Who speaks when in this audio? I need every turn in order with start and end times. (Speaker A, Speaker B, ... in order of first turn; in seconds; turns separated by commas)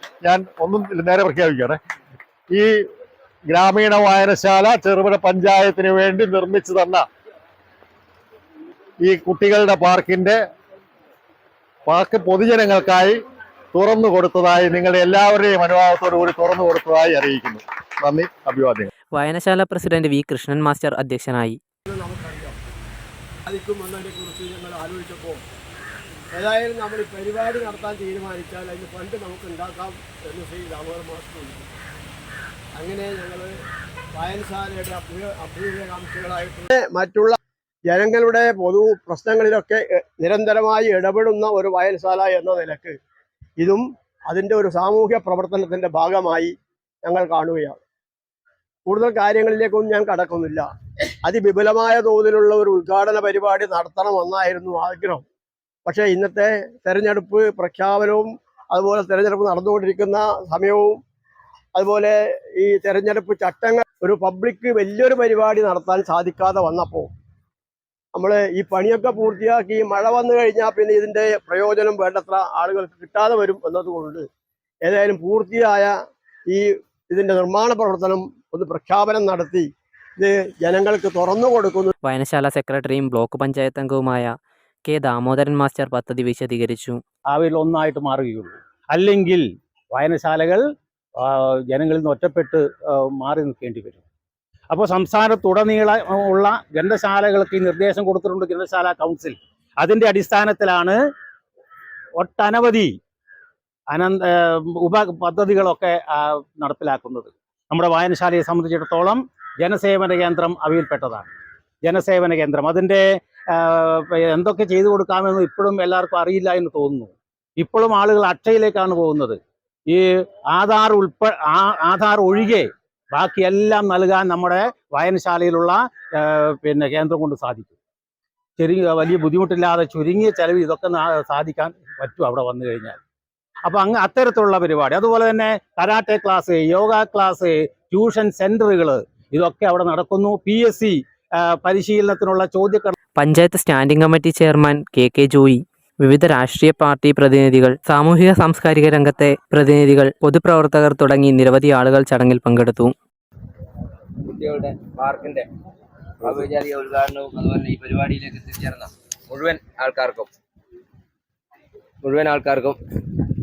Speaker A: 0.2-1.8, Speaker A: 3.5-7.0, Speaker A: 9.0-10.4, Speaker A: 11.8-13.2, Speaker A: 13.7-18.9, Speaker B: 19.1-21.6, Speaker C: 21.9-22.6, Speaker C: 23.5-25.4, Speaker C: 26.3-31.8, Speaker C: 32.7-33.5, Speaker C: 34.1-43.0, Speaker C: 43.6-47.8, Speaker C: 48.9-50.7, Speaker C: 51.2-55.2, Speaker C: 55.9-61.0, Speaker C: 61.7-67.1, Speaker C: 68.1-74.3, Speaker C: 74.8-75.9, Speaker C: 76.5-81.9, Speaker B: 82.0-84.3, Speaker B: 84.8-87.0, Speaker D: 87.3-90.6, Speaker D: 91.2-94.0, Speaker D: 94.7-101.0, Speaker D: 102.2-102.9, Speaker D: 103.9-111.3, Speaker D: 111.8-119.4, Speaker D: 119.9-127.7, Speaker D: 128.6-133.0, Speaker D: 133.7-142.9, Speaker B: 143.2-152.9, Speaker E: 154.3-155.5, Speaker E: 156.2-160.3, Speaker E: 162.0-162.8